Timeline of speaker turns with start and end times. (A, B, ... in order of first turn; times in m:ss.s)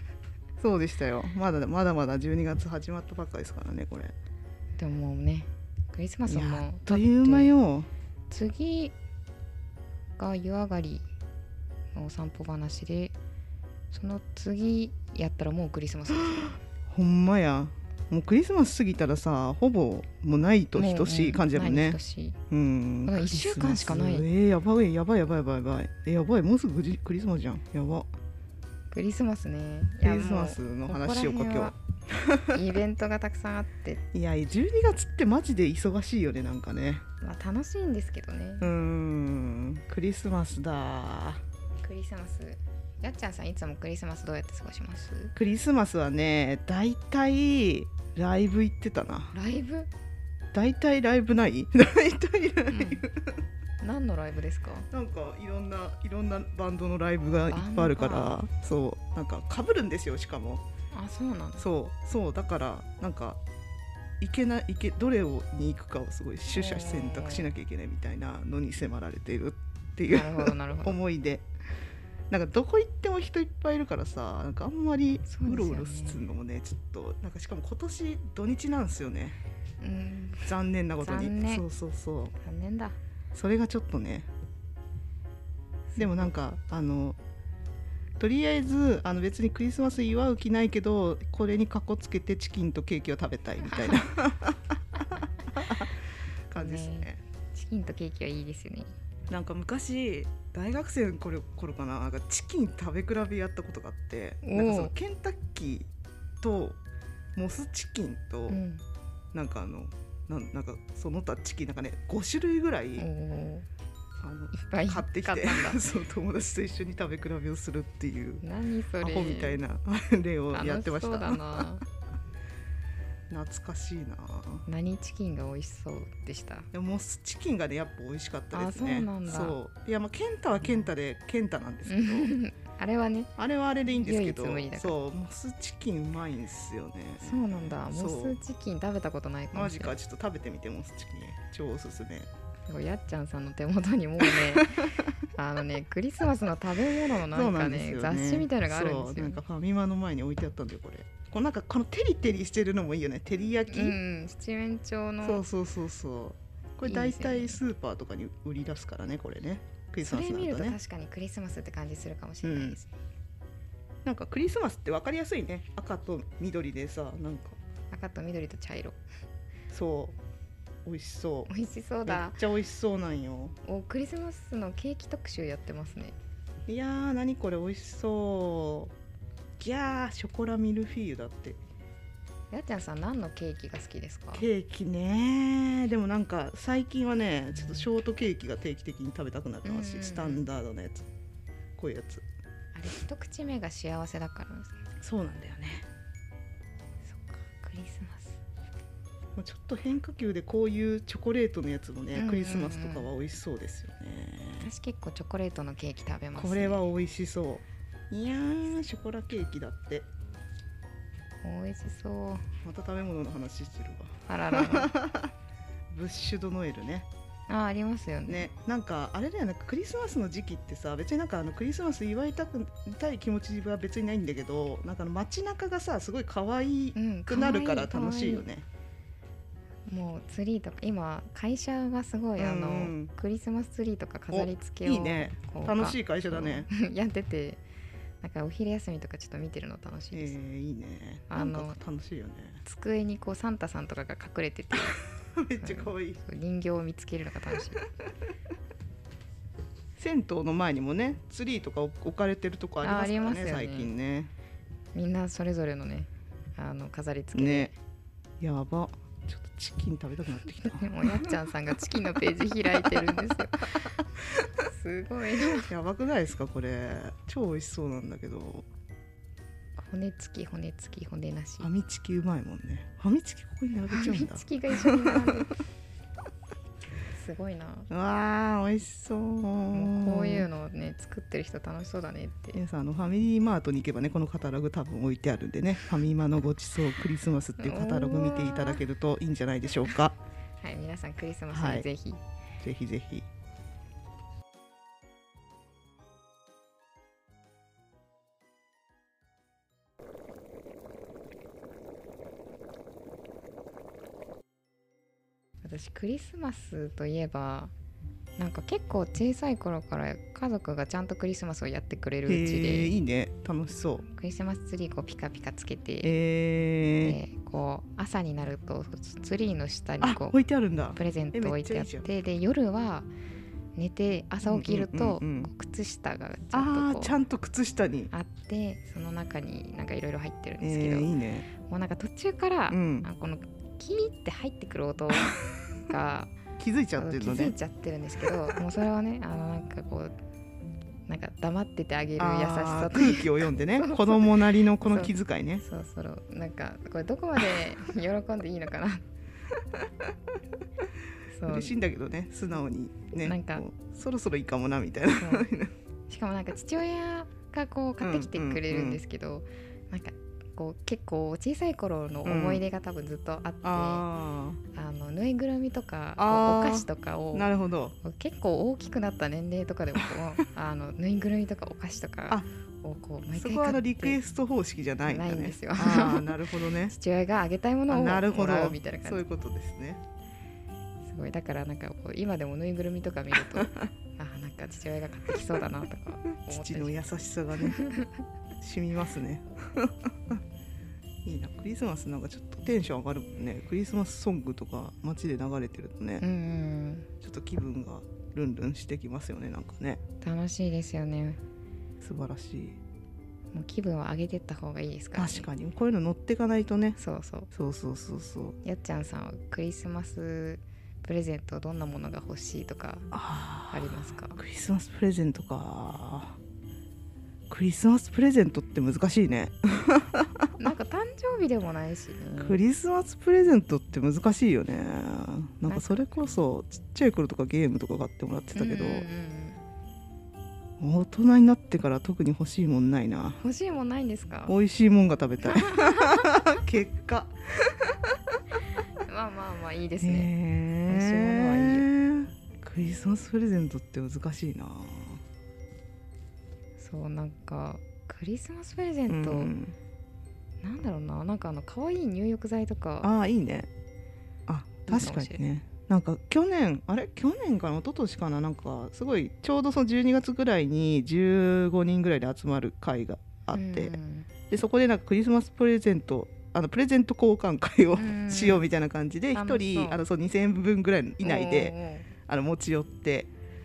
0:00.6-0:04.1 A
0:04.8-0:07.5 B
0:06.3-0:07.9 A
0:08.3-0:08.9 B
0:10.2-0:11.1 B
0:11.9-0:13.1 B
0:13.9-0:16.6 B
0:16.9-0:22.0 A
0:20.8-0:22.4 B
0:22.5-0:28.1 A
0:23.1-0:24.3 B
0:28.9-0:31.7 B
0:30.0-0:32.6 A
0:32.5-0:34.0 B
0:34.1-0:37.0 A
0:37.2-0:38.7 B
0:38.6-0:41.4 A
0:41.8-0:45.3 B
0:45.4-0:49.3 A
0:49.3-0:49.9 B
0:50.5-0:53.4 A
0:52.7-0:53.0 B
0:53.8-0:54.9 B
0:54.9-1:00.6 A
0:57.5-0:58.4 B
1:00.9-1:01.6 B
1:01.6-1:03.4 A
1:04.2-1:11.4 A
1:06.5-1:07.5 B
1:10.1-1:11.0 B
1:12.3-1:19.4 A
1:15.3-1:16.2 B
1:19.8-1:21.6 B
1:20.5-1:22.3 A
1:22.4-1:23.0 B
1:23.3-1:24.3 A
1:25.9-1:26.3 B
1:26.0-1:27.2 A
1:28.2-1:35.9 A
1:33.6-1:34.0 B
1:36.5-1:37.2 A
1:36.6-1:38.9 B
1:39.3-1:45.9 A
1:44.4-1:44.9 B
1:46.4-1:46.8 A
1:47.4-1:48.6 A
1:48.5-1:48.8 B
1:49.3-1:53.1 A
1:53.0-1:53.7 B
1:54.2-1:58.4 A
1:54.5-1:55.8 B
1:58.4-1:59.6 B
1:59.0-2:01.6 A
2:00.5-2:01.8 B
2:03.3-2:04.6 A
2:04.7-2:06.7 B
2:06.7-2:12.3 A
2:08.5-2:09.6 B
2:11.9-2:13.3 B
2:13.4-2:18.4 A
2:13.9-2:14.9 B
2:17.2-2:20.0 B
2:19.5-2:22.3 A
2:22.7-2:24.8 B
2:24.2-2:25.0 A
2:25.4-2:29.4 B
2:27.3-2:34.0 A
2:33.7-2:35.4 B
2:35.2-2:40.8 A
2:36.8-2:37.6 B
2:40.0-2:42.9 B
2:42.4-2:42.8 A
2:44.0-2:47.6 A
2:47.9-2:49.0 B
2:49.7-2:50.2 A
2:50.8-2:51.5 A
2:51.5-2:52.4 B
2:52.1-2:53.6 A
2:53.6-2:56.2 B
2:56.7-2:58.9 A
2:59.6-3:01.6 A
3:02.5-3:04.5 B
3:04.3-3:11.1 A
3:09.6-3:10.5 B
3:11.8-3:12.2 A
3:12.8-3:14.8 B
3:15.0-3:15.9 A
3:17.1-3:18.4 B
3:19.4-3:24.7 A
3:22.2-3:23.1 B
3:24.6-3:26.9 B
3:26.4-3:30.1 A
3:31.4-3:32.5 B
3:32.6-3:35.3 A
3:34.3-3:34.9 B
3:35.9-3:37.1 A
3:37.5-3:38.5 B
3:38.3-3:48.7 A
3:47.0-3:48.5 B
3:49.9-3:57.6 B
3:52.4-3:53.1 A
3:54.3-3:56.7 A
3:58.2-4:00.4 B
4:00.1-4:02.6 A
4:01.3-4:01.8 B
4:02.6-4:05.0 B
4:05.3-4:06.2 A
4:05.6-4:07.8 B
4:10.0-4:14.3 A
4:12.8-4:13.9 B
4:14.9-4:17.8 B
4:17.3-4:17.7 A
4:18.4-4:21.4 A
4:20.6-4:23.7 B
4:22.8-4:23.1 A
4:24.6-4:25.7 B
4:25.7-4:28.7 A
4:29.8-4:31.7 B
4:31.6-4:35.5 A
4:33.9-4:35.6 B
4:37.1-4:37.9 B
4:37.9-4:40.5 A
4:39.7-4:42.6 B
4:42.6-4:50.2 A
4:47.6-4:48.8 B
4:50.6-4:52.2 B
4:51.5-4:51.9 A
4:52.6-4:53.3 A
5:05.6-5:07.7 B
5:08.4-5:12.9 B
5:12.3-5:14.0 A
5:14.1-5:16.2 B
5:16.0-5:17.2 A
5:17.0-5:20.4 B
5:20.0-5:22.0 A
5:20.9-5:23.1 B
5:23.8-5:27.2 B
5:24.4-5:25.5 A
5:26.5-5:28.1 A
5:28.1-5:36.4 B
5:30.6-5:31.5 A
5:32.7-5:33.1 A
5:36.6-5:37.6 A
5:37.0-5:40.1 B
5:41.1-5:49.0 B
5:42.2-5:45.6 A
5:51.3-5:51.7 B
5:51.5-5:55.7 A
5:53.2-5:53.6 B
5:55.2-5:55.5 B
5:56.1-6:04.0 B
5:58.0-5:59.0 A
6:02.2-6:02.6 A
6:03.6-6:04.6 A
6:04.7-6:07.5 B
6:06.2-6:08.0 A
6:08.0-6:14.2 B
6:13.4-6:17.0 A
6:15.1-6:16.4 B
6:16.9-6:19.2 B
6:17.9-6:20.0 A
6:21.1-6:27.1 B
6:23.6-6:23.9 A
6:26.4-6:27.8 A
6:27.6-6:28.1 B
6:28.6-6:30.4 A
6:31.2-6:36.2 A
6:36.2-6:37.1 B
6:37.2-6:40.0 A
6:40.2-6:41.4 B
6:42.0-6:42.8 A
6:43.5-6:45.5 B
6:45.2-6:47.0 A
6:47.0-6:47.5 B
6:47.5-6:48.6 A
6:48.6-6:53.1 B
6:53.1-6:56.4 A
6:53.7-6:54.4 B
6:57.5-7:00.5 A
7:00.6-7:02.6 B
7:02.4-7:09.1 A
7:05.7-7:06.0 B
7:08.6-7:09.6 B
7:10.8-7:13.4 A
7:13.4-7:14.6 B
7:14.5-7:18.2 A
7:15.4-7:16.3 B
7:19.1-7:20.3 B
7:20.0-7:25.2 A
7:20.9-7:21.9 B
7:26.8-7:29.5 B
7:29.1-7:29.8 A
7:30.6-7:33.1 B
7:33.0-7:33.7 A
7:34.5-7:44.0 A
7:34.9-7:35.4 B
7:43.5-7:44.3 B
7:44.5-7:51.7 A
7:48.0-7:48.6 B
7:49.3-7:50.0 B
7:51.2-7:52.1 B
7:52.3-7:53.3 A